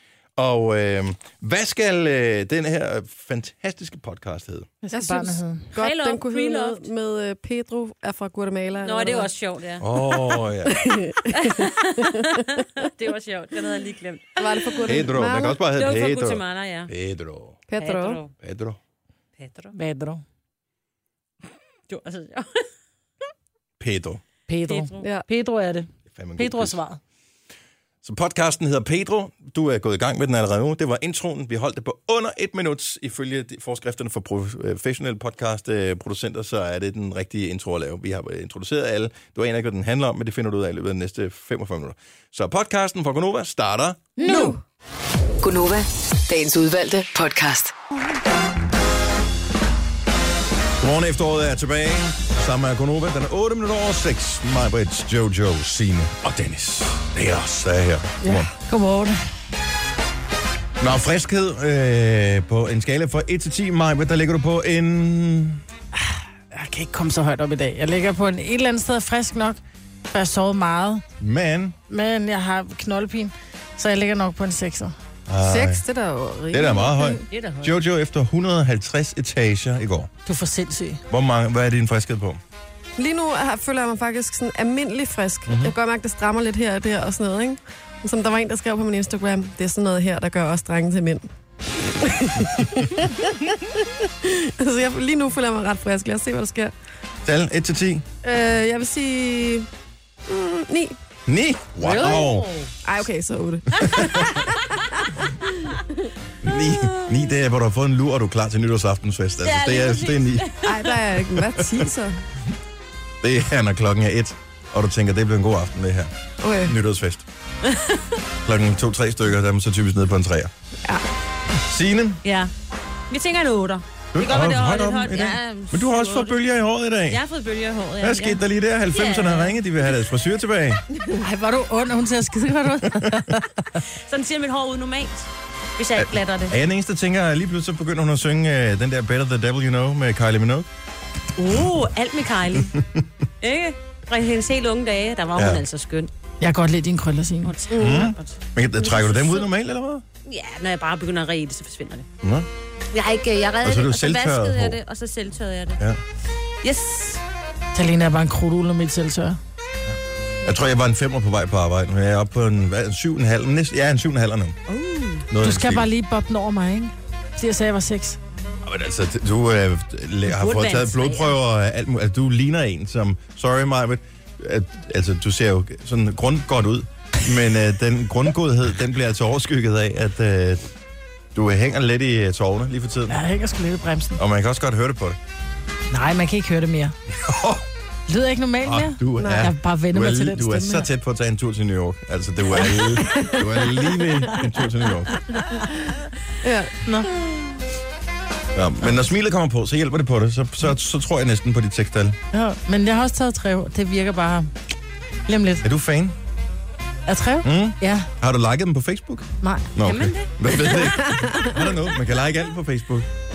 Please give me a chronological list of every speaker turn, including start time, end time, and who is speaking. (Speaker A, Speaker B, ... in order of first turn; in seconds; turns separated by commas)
Speaker A: 0.4-4.7, Speaker B: 4.8-5.7, Speaker C: 4.9-9.3, Speaker D: 5.8-6.9, Speaker D: 8.8-9.9, Speaker A: 9.8-10.9, Speaker C: 10.0-12.6, Speaker D: 11.4-14.9, Speaker C: 14.4-15.6, Speaker A: 14.8-17.6, Speaker D: 15.8-16.9, Speaker C: 17.7-18.2, Speaker D: 17.8-18.3, Speaker A: 18.4-18.8, Speaker D: 19.4-19.7, Speaker B: 19.7-20.2, Speaker D: 21.9-22.6, Speaker A: 23.8-24.2, Speaker B: 24.5-27.0, Speaker D: 24.7-25.1, Speaker A: 26.1-26.8, Speaker A: 28.0-44.1, Speaker B: 44.2-44.6, Speaker C: 44.2-44.6, Speaker E: 45.4-47.7, Speaker A: 50.8-58.5, Speaker B: 58.3-59.2, Speaker A: 60.8-65.6, Speaker B: 65.9-69.6, Speaker B: 70.1-71.0, Speaker A: 71.2-71.8, Speaker B: 71.9-75.0, Speaker A: 75.3-75.8, Speaker C: 75.4-77.2, Speaker A: 76.5-80.1, Speaker D: 77.3-77.8, Speaker B: 80.2-81.0, Speaker A: 81.1-82.4, Speaker C: 83.0-91.3, Speaker A: 85.5-85.7, Speaker C: 91.8-96.7, Speaker A: 97.2-98.0, Speaker C: 98.2-99.7, Speaker C: 100.3-101.0, Speaker A: 101.3-102.5, Speaker D: 101.8-102.7, Speaker C: 102.8-105.8, Speaker A: 103.8-104.4, Speaker A: 106.4-110.5, Speaker D: 106.6-107.2, Speaker D: 109.4-111.1, Speaker C: 110.7-112.2, Speaker A: 111.6-111.9, Speaker A: 113.2-116.1, Speaker C: 116.4-116.8, Speaker A: 116.6-117.2, Speaker D: 117.6-118.2, Speaker A: 118.5-120.5, Speaker A: 121.7-122.2, Speaker D: 122.2-122.5, Speaker D: 123.1-126.4, Speaker A: 124.1-127.2, Speaker D: 127.1-128.4, Speaker A: 128.0-130.8, Speaker D: 128.9-129.9, Speaker B: 131.2-133.4, Speaker A: 132.9-133.3, Speaker D: 134.1-136.6, Speaker A: 136.0-140.7, Speaker D: 141.4-142.8, Speaker D: 143.4-146.1, Speaker A: 145.4-145.6, Speaker B: 146.4-147.5, Speaker D: 147.4-149.5, Speaker C: 147.7-148.1, Speaker A: 147.8-150.1, Speaker D: 150.2-152.1, Speaker A: 152.2-152.5, Speaker D: 152.9-155.8, Speaker A: 153.6-154.8, Speaker D: 156.6-157.2, Speaker B: 157.7-159.4, Speaker A: 160.4-164.6, Speaker D: 164.7-165.3, Speaker A: 165.3-165.9, Speaker B: 165.4-168.2, Speaker A: 168.6-180.7, Speaker D: 170.3-171.4, Speaker A: 181.3-183.2, Speaker B: 183.1-184.2, Speaker A: 184.2-185.2, Speaker B: 185.9-186.9, Speaker A: 187.1-187.7, Speaker B: 188.1-190.9, Speaker A: 188.6-195.2, Speaker C: 189.2-189.5, Speaker C: 192.6-193.5, Speaker C: 196.4-196.8, Speaker B: 196.8-197.1, Speaker A: 198.6-202.2, Speaker B: 202.3-204.5, Speaker B: 205.3-205.7, Speaker A: 205.6-206.2, Speaker B: 207.1-208.1, Speaker A: 207.4-213.1, Speaker B: 209.4-209.8, Speaker D: 209.8-211.2, Speaker C: 211.1-211.5